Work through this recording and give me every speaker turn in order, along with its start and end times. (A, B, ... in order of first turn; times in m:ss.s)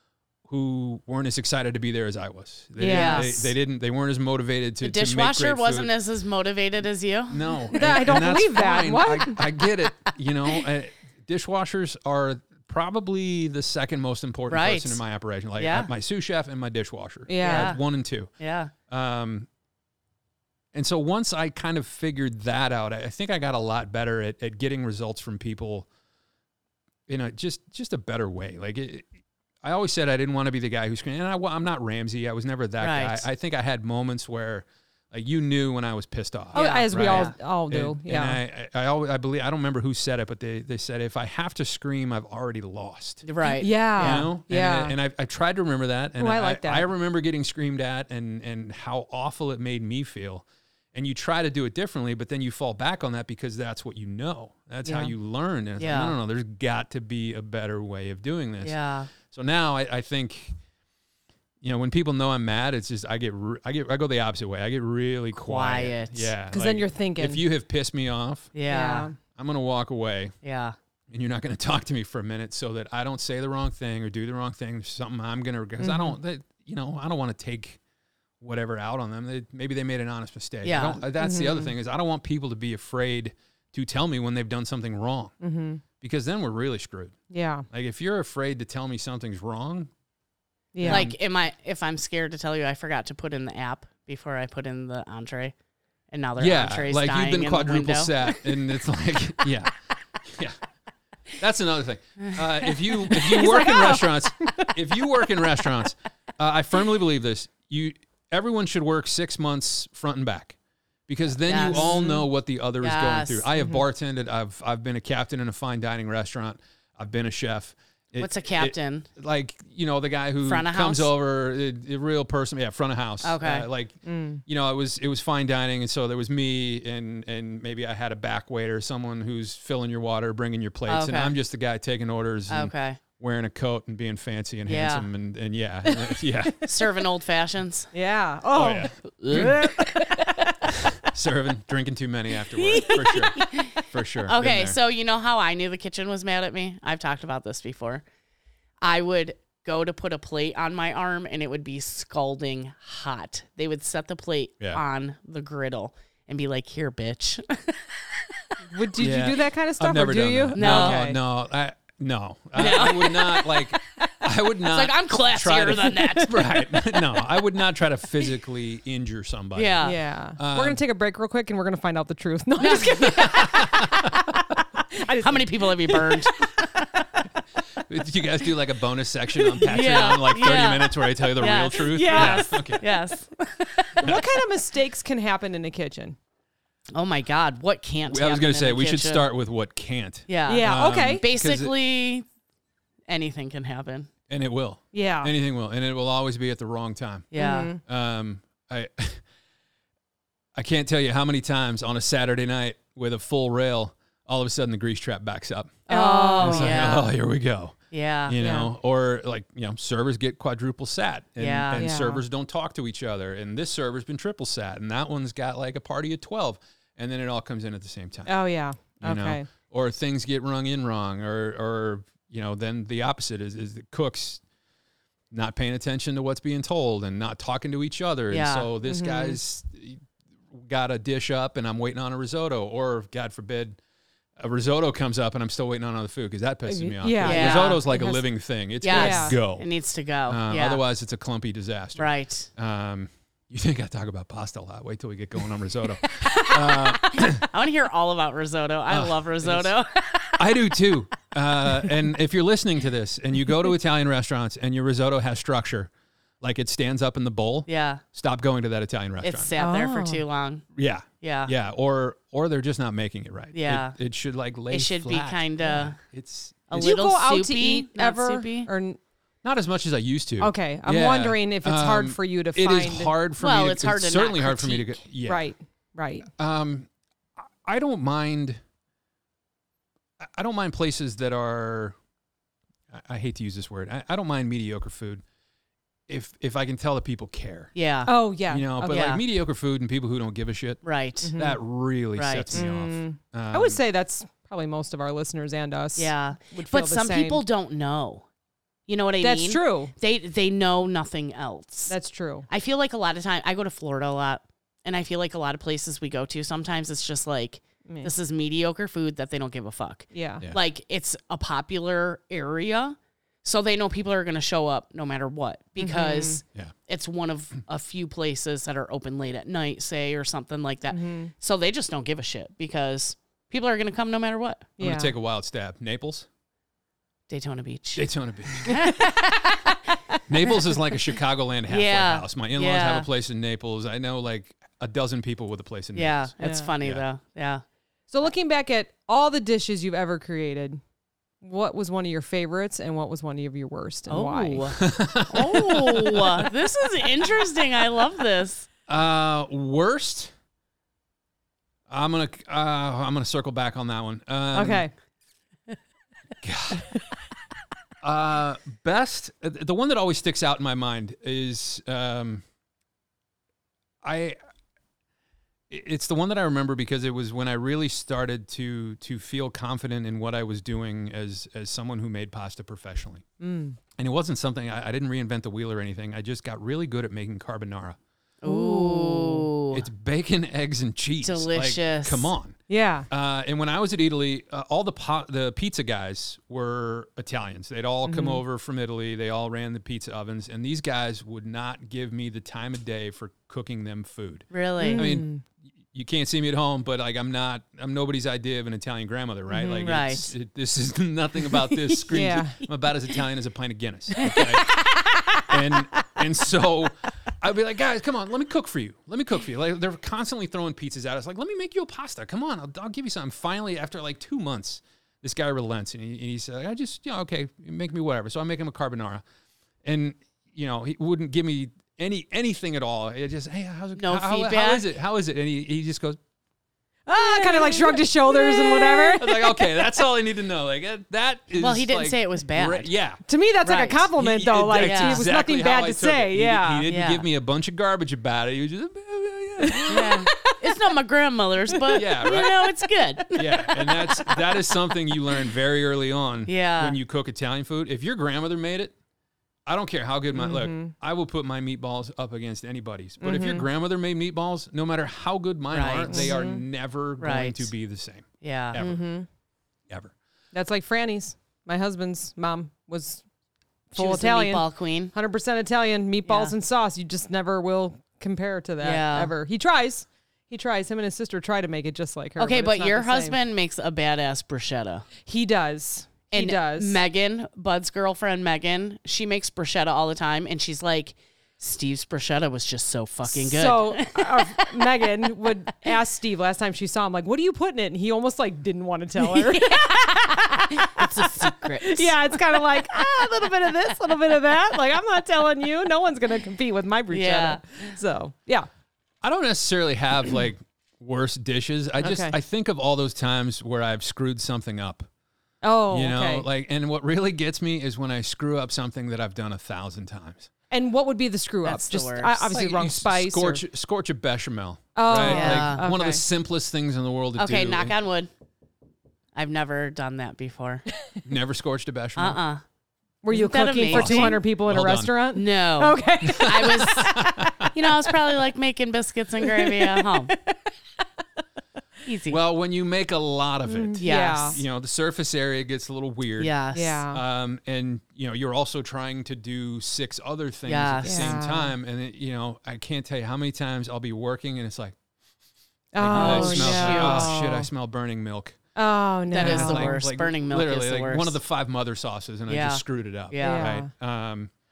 0:00.5-0:05.9 A
0:02.8-0:03.4 B
0:02.8-0:03.5 C
0:04.8-0:07.4 C
0:07.3-0:18.3 A
0:07.7-0:09.4 B
0:14.5-0:15.0 C
0:15.6-0:15.9 C
0:17.3-0:17.7 B
0:17.4-0:17.8 C
0:18.4-0:18.7 C
0:18.9-0:19.5 A
0:20.7-0:25.9 A
0:27.1-0:29.1 A
0:29.6-0:43.2 A
0:32.8-0:33.2 C
0:36.5-0:38.4 B
0:36.5-0:37.3 C
0:43.2-0:44.3 C
0:43.4-0:44.9 B
0:44.0-1:00.5 A
0:46.2-0:46.8 B
0:54.8-0:55.1 B
0:55.8-0:56.1 C
0:58.6-0:59.1 C
1:01.6-1:08.5 A
1:05.3-1:06.3 C
1:06.5-1:07.4 B
1:08.5-1:09.1 C
1:08.7-1:09.2 B
1:09.3-1:10.3 A
1:10.4-1:10.7 C
1:11.1-1:17.8 A
1:15.8-1:16.2 B
1:18.4-1:25.3 A
1:20.6-1:21.0 C
1:21.2-1:21.7 B
1:25.4-1:25.8 B
1:26.0-1:27.2 A
1:27.3-1:27.6 B
1:27.7-1:29.9 A
1:30.7-1:31.1 B
1:30.8-1:31.2 A
1:30.8-1:35.5 C
1:36.1-1:38.4 C
1:36.4-1:39.7 A
1:40.2-1:40.6 A
1:41.4-1:50.6 A
1:42.2-1:44.0 C
1:51.1-2:16.7 A
1:51.4-1:52.0 C
1:51.6-1:52.2 B
1:52.8-1:53.4 C
1:53.6-1:53.8 B
1:58.2-1:59.1 C
2:00.4-2:01.1 C
2:03.2-2:03.6 C
2:04.0-2:04.4 B
2:10.9-2:11.3 C
2:12.5-2:13.0 C
2:14.6-2:15.0 C
2:15.9-2:16.1 B
2:16.6-2:17.9 C
2:17.9-2:20.7 B
2:18.5-2:19.7 A
2:19.2-2:20.0 C
2:20.7-2:24.8 A
2:22.6-2:28.0 C
2:28.8-2:38.4 C
2:38.7-2:41.2 B
2:39.0-2:50.8 A
2:40.5-2:41.0 C
2:42.5-2:46.7 C
2:49.5-2:50.0 C
2:49.8-2:54.1 B
2:52.6-2:53.9 C
2:53.1-2:54.1 A
2:54.9-2:56.7 B
2:55.1-2:57.1 C
2:57.8-3:02.8 A
2:59.6-3:04.2 C
3:01.9-3:02.7 B
3:04.0-3:06.2 B
3:06.9-3:09.2 C
3:08.1-3:11.7 A
3:10.3-3:12.2 C
3:10.5-3:11.2 B
3:13.1-3:14.1 C
3:14.3-3:17.3 A
3:14.9-3:15.3 B
3:17.3-3:17.7 C
3:17.4-3:17.8 B
3:17.8-3:19.2 A
3:20.5-3:25.8 A
3:25.9-3:26.8 B
3:25.9-3:27.1 C
3:26.4-3:38.3 A
3:27.9-3:28.4 C
3:28.4-3:28.7 B
3:31.4-3:31.8 C
3:31.8-3:32.2 B
3:38.2-3:39.5 B
3:39.0-3:44.4 A
3:45.3-3:53.8 A
3:48.3-3:48.7 C
3:48.8-3:49.4 B
3:54.4-3:59.6 A
3:56.7-3:58.2 B
3:57.2-3:57.8 C
3:58.8-4:00.8 C
3:58.9-3:59.4 B
4:00.3-4:07.5 A
4:02.0-4:02.5 C
4:06.1-4:10.6 C
4:08.9-4:09.7 A
4:10.4-4:19.5 A
4:17.7-4:18.0 C
4:19.2-4:20.6 C
4:19.6-4:20.2 B
4:20.7-4:26.9 A
4:21.2-4:21.5 C
4:23.5-4:24.0 C
4:24.7-4:26.0 C
4:26.7-4:28.7 C
4:26.7-4:29.0 B
4:29.4-4:35.5 A
4:30.4-4:33.1 B
4:33.4-4:35.0 C
4:35.2-4:36.3 B
4:36.3-4:36.9 A
4:37.4-4:38.6 A
4:40.2-4:42.0 A
4:42.9-4:45.2 A
4:46.1-4:47.7 A
4:47.7-4:48.1 C
4:48.0-4:49.0 B
4:48.5-4:50.8 A
4:48.8-4:49.2 C
4:50.8-4:51.3 C
4:51.2-4:51.6 B
4:51.4-4:53.8 A
4:52.2-4:52.6 C
4:52.5-4:57.4 B
4:56.0-4:58.2 C
4:58.9-5:01.9 C
4:59.2-4:59.9 B
5:01.9-5:02.5 B
5:02.5-5:24.7 C
5:10.1-5:10.4 B
5:15.8-5:16.4 B
5:20.9-5:21.3 B
5:24.8-5:25.1 B
5:24.8-5:26.3 A
5:27.3-5:30.5 C
5:28.0-5:28.8 A
5:30.3-5:37.0 A
5:31.7-5:33.1 C
5:35.9-5:37.6 C
5:36.4-5:36.7 B
5:38.1-5:40.8 B
5:41.4-5:44.7 B
5:44.1-5:48.7 C
5:44.8-5:46.5 A
5:48.9-5:50.3 A
5:51.9-5:54.8 A
5:54.5-5:54.9 B
5:56.4-5:56.9 A
5:58.0-6:02.4 A
6:04.0-6:04.4 A
6:05.7-6:13.2 A
6:13.4-6:13.8 B
6:14.0-6:18.0 A
6:18.4-6:19.8 C
6:18.4-6:19.5 B
6:19.7-6:22.6 A
6:21.2-6:22.3 C
6:22.7-6:23.1 B
6:23.1-6:35.3 A
6:28.0-6:28.4 B
6:34.5-6:35.1 C
6:34.8-6:35.4 B
6:35.9-6:44.8 A
6:39.5-6:40.3 C
6:42.1-6:42.6 B
6:44.2-6:45.5 C
6:45.4-6:59.2 A
6:59.8-7:06.2 A
7:04.0-7:04.8 C
7:07.0-7:09.8 B
7:07.1-7:08.0 C
7:09.0-7:13.2 A
7:11.5-7:12.9 C
7:13.3-7:16.8 B
7:13.6-7:14.1 C
7:14.1-7:20.2 A
7:14.8-7:15.2 C
7:16.9-7:17.2 C
7:19.6-7:20.6 B
7:19.9-7:23.9 C
7:21.7-7:22.0 B
7:21.9-7:22.7 A
7:23.3-7:28.9 A
7:26.5-7:27.0 C
7:29.6-7:39.0 A
7:30.3-7:30.9 B
7:33.2-7:33.7 B
7:35.7-7:36.4 C
7:36.1-7:36.6 B
7:37.2-7:37.7 C
7:38.4-7:38.8 C
7:38.8-7:39.3 B
7:40.5-7:43.2 B
7:43.9-7:53.4 B
7:44.0-7:45.1 C
7:46.3-7:46.5 C
7:48.8-7:49.3 C
7:52.4-7:55.1 C
7:55.2-7:57.0 B
7:56.3-8:04.9 C
8:03.2-8:18.7 B
8:09.2-8:13.5 C
8:17.1-8:18.0 C
8:19.2-8:25.1 A
8:22.0-8:22.4 B
8:25.6-8:26.5 B
8:25.9-8:30.5 A
8:30.7-8:33.6 B
8:31.6-8:32.5 C
8:32.5-8:37.9 A
8:34.9-8:36.2 B
8:35.2-8:35.8 C
8:37.4-8:38.3 C
8:39.3-8:40.9 C
8:41.2-8:42.4 A
8:42.2-8:42.6 C
8:43.2-8:47.7 B
8:43.3-8:44.4 C
8:43.9-8:45.2 A
8:45.3-8:50.3 C
8:46.2-8:47.7 A
8:49.4-8:50.5 B
8:52.0-8:52.4 C
8:52.3-8:56.5 A
8:53.7-8:54.6 B
8:54.0-8:54.6 C
8:56.4-8:57.0 C
8:56.7-8:57.2 B
8:57.1-9:05.0 A
9:00.7-9:01.4 C
9:01.0-9:01.7 B
9:05.9-9:07.7 B
9:06.0-9:08.6 A
9:06.1-9:07.4 C
9:08.7-9:10.0 B
9:09.3-9:11.4 C
9:09.4-9:14.5 A
9:12.5-9:13.7 C
9:13.4-9:13.9 B